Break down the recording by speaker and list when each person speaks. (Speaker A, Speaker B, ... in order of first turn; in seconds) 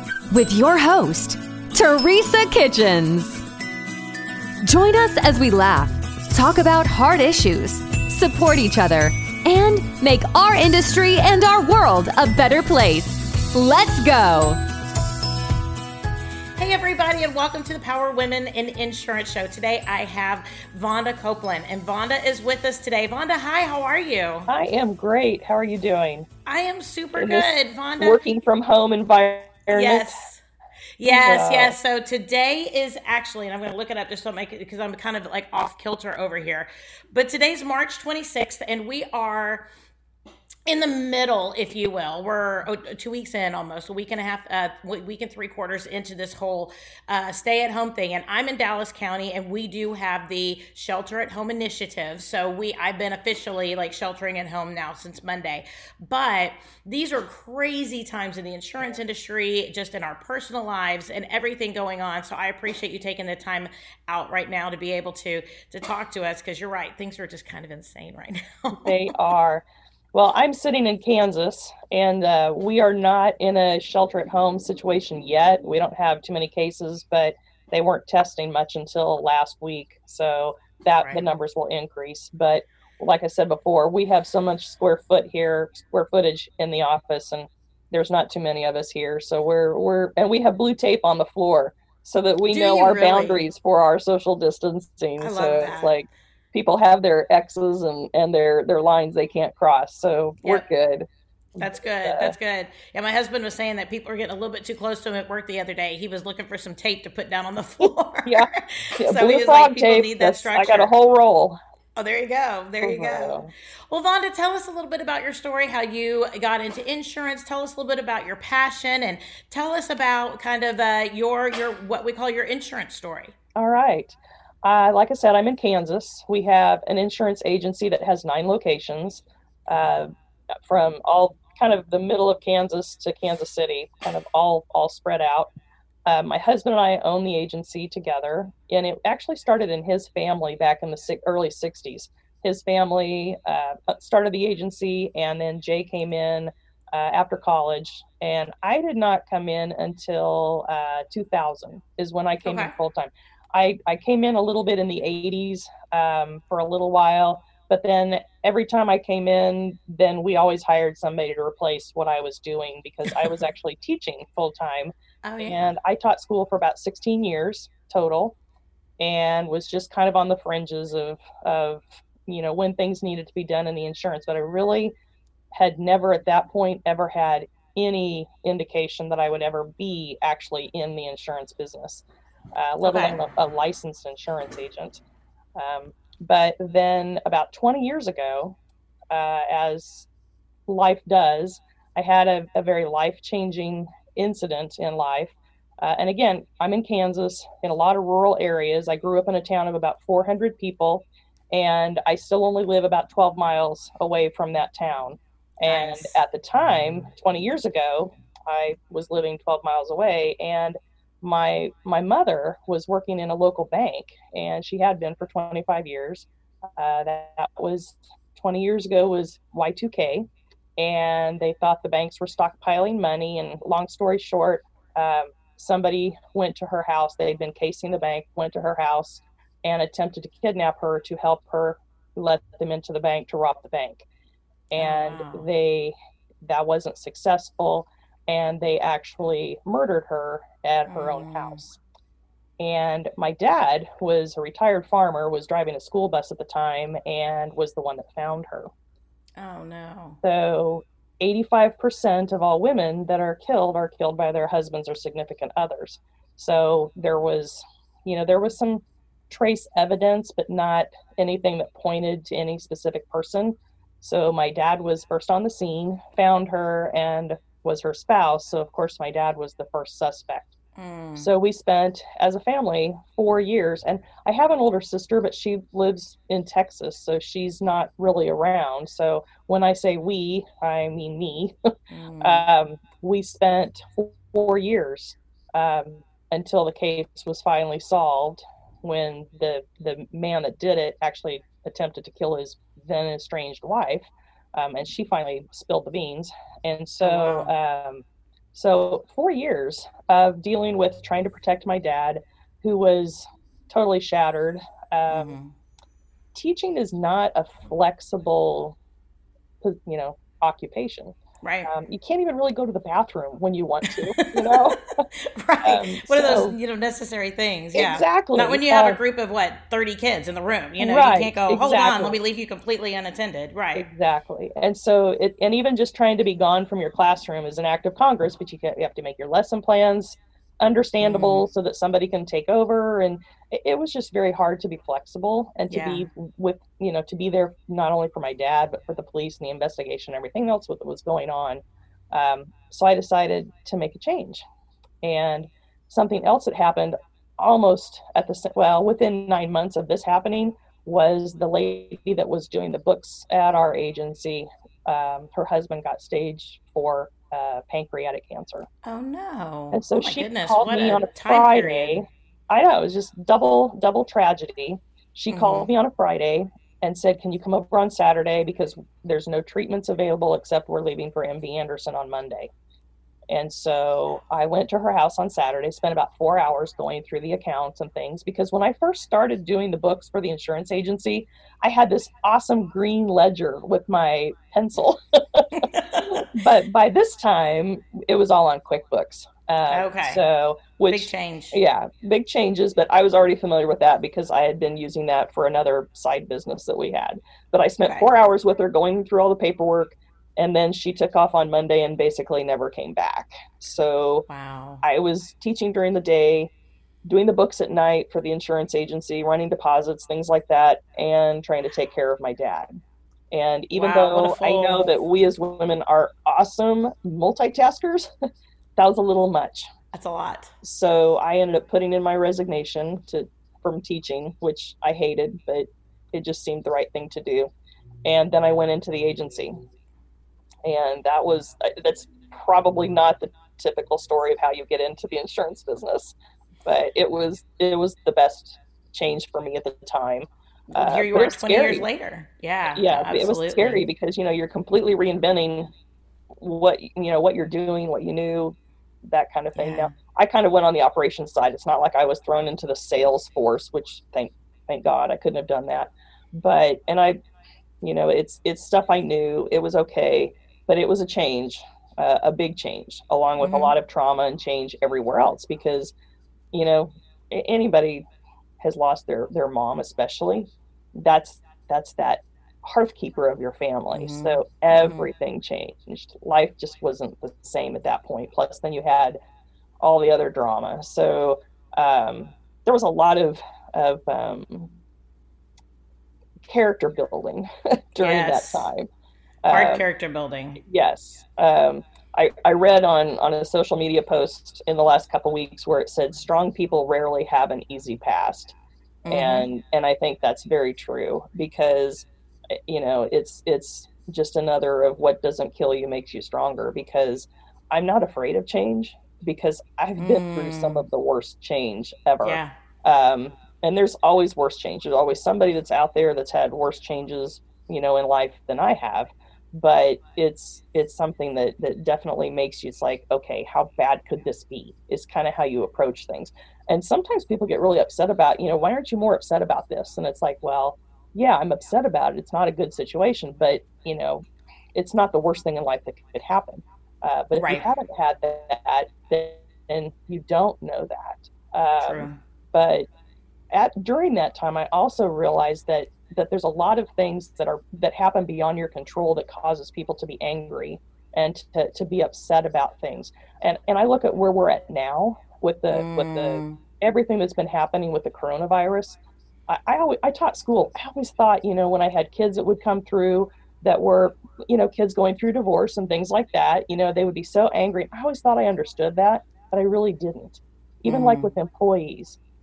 Speaker A: 0.3-3.4, 4.6-14.6
Speaker B: 16.6-24.5, 26.5-28.2, 29.7-30.4, 31.0-39.7, 40.7-69.1, 81.0-81.3, 92.5-93.5, 95.2-95.9, 101.6-110.9, 112.0-113.4, 113.9-123.3, 152.4-152.7, 165.2-165.6, 182.8-183.2, 205.6-206.2, 234.8-235.5, 240.9-241.6, 249.4-250.2, 270.8-271.3, 281.9-282.5, 297.0-297.5, 305.1-305.5, 311.4-311.7, 313.9-323.9, 331.0-331.4, 335.7-336.1, 358.9-362.0, 365.3-365.7, 385.5-386.3, 389.7-390.2, 390.9-391.6, 404.3-404.8, 413.7-414.9, 419.9-420.5, 440.7-443.9, 449.6-449.9, 463.4-463.8, 473.9-475.1, 488.0-488.7, 489.5-490.6, 499.1-499.5, 510.0-510.9, 512.2-512.5, 537.4-537.7, 541.8-542.2, 555.7-556.6, 570.9-571.3
Speaker C: 24.5-26.3, 27.1-30.3, 31.1-31.8, 68.8-101.1, 101.6-102.3, 107.8-111.6, 112.8-113.5, 123.6-130.1, 130.6-135.5, 136.1-168.4, 169.0-174.9, 175.5-182.0, 182.6-185.0, 185.6-188.6, 189.1-190.1, 190.7-234.1, 234.7-241.8, 242.6-248.7, 250.2-270.5, 271.2-305.4, 306.3-308.8, 309.6-314.8, 315.6-316.6, 317.7-319.0, 320.8-322.2, 323.8-344.4, 345.0-358.7, 359.7-372.5, 373.3-404.3, 404.8-406.5, 407.1-412.7, 413.3-418.1, 418.8-419.7, 420.6-427.5, 428.1-429.6, 430.6-441.9, 442.7-445.7, 446.4-457.2, 457.8-465.9, 466.5-468.0, 468.6-479.2, 479.8-484.7, 486.4-488.9, 489.4-489.8, 490.6-498.6, 499.1-542.9, 543.5-572.2